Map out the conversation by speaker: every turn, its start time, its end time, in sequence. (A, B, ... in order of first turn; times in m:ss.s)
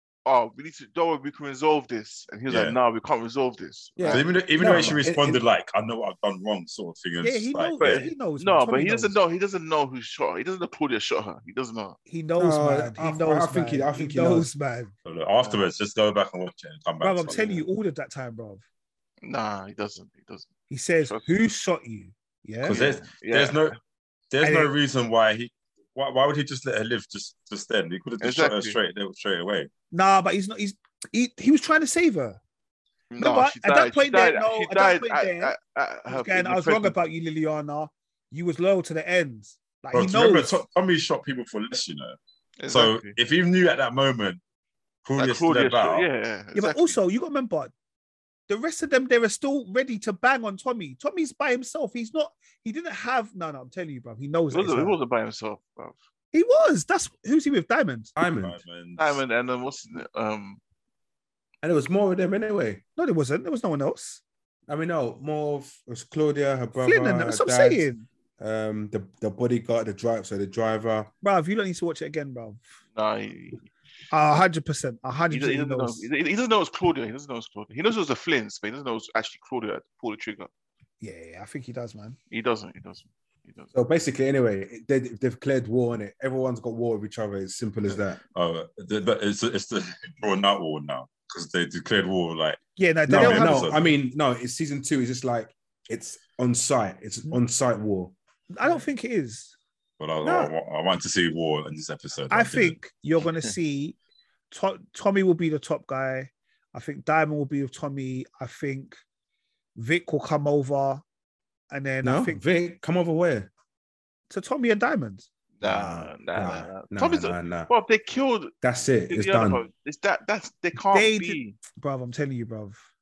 0:00.3-0:04.9 A
0:02.5-0:02.8 B
0:04.0-0:05.4 C
0:04.1-0:08.1 B
0:07.2-0:09.2 D
0:07.8-0:12.0 A
0:12.1-0:14.9 D
0:12.4-0:14.5 C
0:15.0-0:17.4 B
0:17.0-0:18.6 D
0:17.3-0:17.6 A
0:19.2-0:20.5 A
0:20.7-0:22.8 D
0:22.6-0:23.8 B
0:22.6-0:23.8 A
0:24.3-0:29.7 B
0:24.4-0:24.7 D
0:28.2-0:28.8 A
0:29.9-0:32.4 D
0:33.1-0:37.0 A
0:33.2-0:35.6 D
0:36.1-0:40.6 D
0:39.9-0:42.2 B
0:42.6-0:43.2 A
0:42.7-0:44.4 B
0:45.0-0:46.1 B
0:45.2-0:47.0 A
0:46.6-0:47.7 D
0:48.5-0:55.0 D
0:54.5-0:56.0 A
0:56.3-0:58.1 D
0:58.2-0:58.6 C
0:58.4-0:59.2 B
0:59.0-1:00.6 A
1:01.6-1:02.8 C
1:03.0-1:04.2 D
1:04.7-1:07.9 C
1:06.8-1:08.0 D
1:08.4-1:11.1 C
1:11.2-1:12.7 D
1:13.0-1:13.6 A
1:14.1-1:16.1 D
1:15.3-1:20.5 A
1:21.0-1:22.2 D
1:22.3-1:23.7 A
1:23.7-1:28.2 C
1:28.4-1:33.9 B
1:32.8-1:33.7 D
1:33.1-1:38.2 C
1:38.5-1:39.5 D
1:40.0-1:42.8 B
1:42.3-1:44.0 D
1:44.5-1:49.0 D
1:49.8-1:51.0 D
1:51.7-1:52.4 D
1:52.0-1:53.5 C
1:54.3-1:55.9 D
1:55.6-1:58.5 A
1:55.6-1:57.7 C
1:58.6-1:59.6 C
1:59.1-2:01.6 A
2:00.9-2:02.8 D